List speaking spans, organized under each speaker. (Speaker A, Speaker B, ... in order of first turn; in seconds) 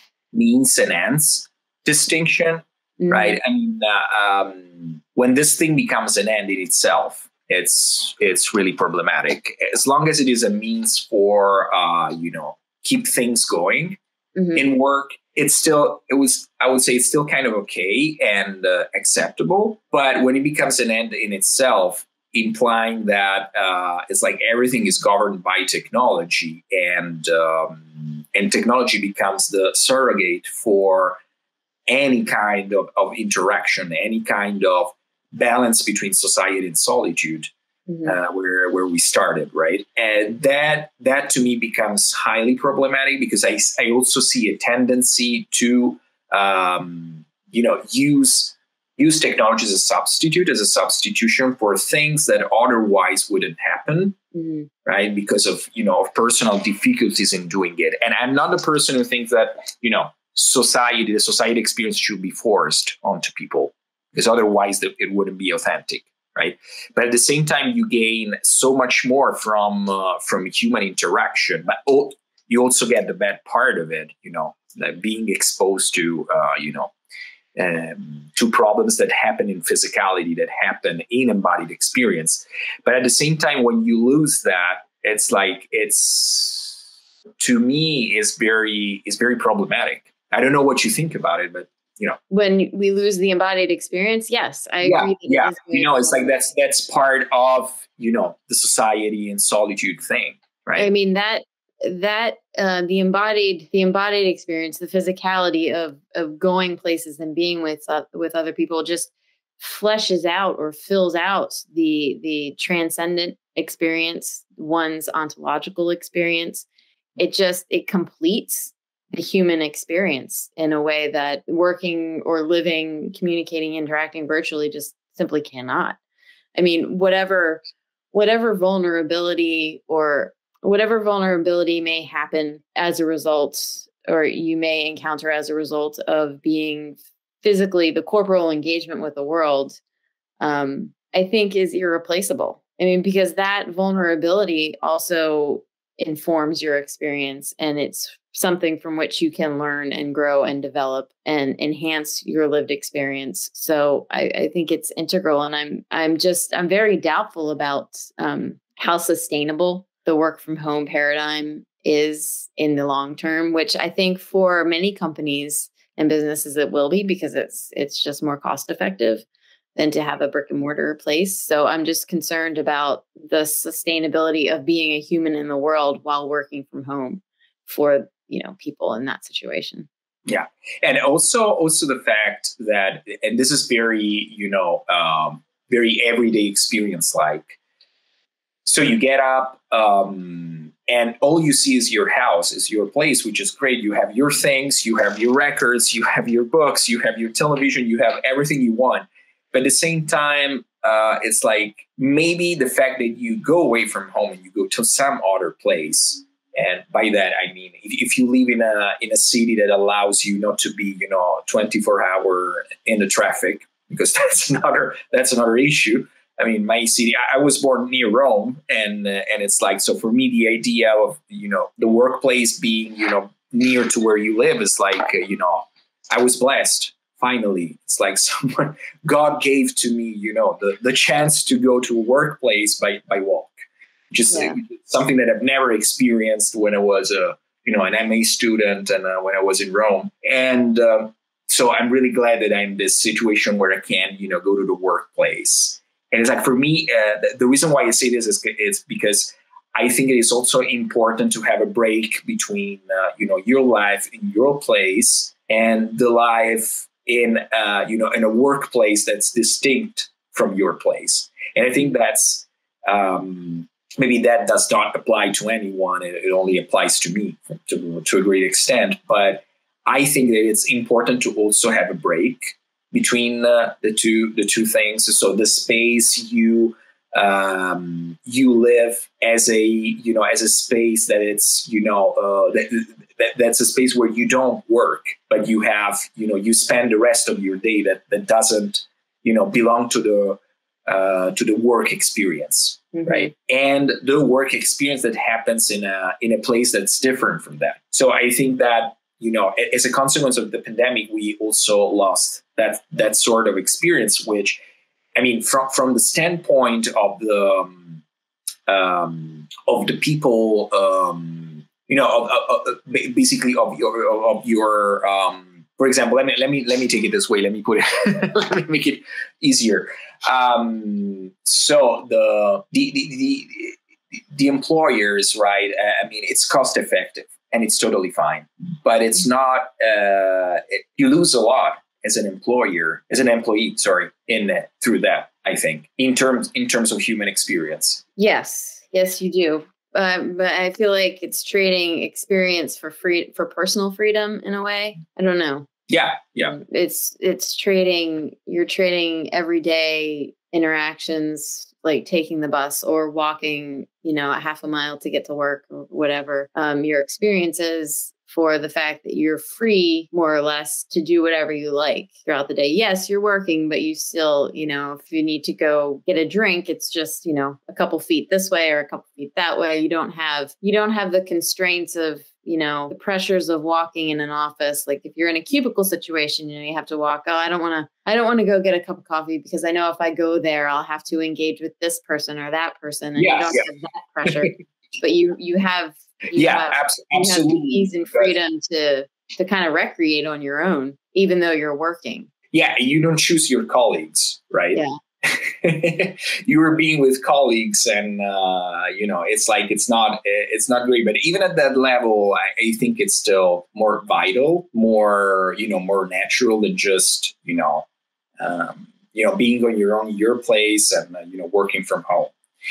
Speaker A: 0.3-14.0, 14.5-31.2, 31.9-37.5, 38.0-54.1, 54.8-76.9, 77.5-86.8, 87.4-92.2, 94.8-100.9, 180.3-187.6, 188.6-233.5, 234.1-304.6, 305.1-308.0, 308.7-323.8, 324.3-338.0, 345.9-346.6, 383.2-383.7, 384.2-384.6, 386.3-388.3, 392.5-407.9, 408.4-412.3
Speaker B: 3.0-3.4, 14.3-14.7, 37.9-38.2, 54.3-54.7, 92.3-96.5, 100.8-116.7, 117.2-126.0, 126.5-139.8, 140.4-169.2, 169.8-179.9, 234.3-234.6, 292.9-293.3, 338.2-345.7, 346.5-392.3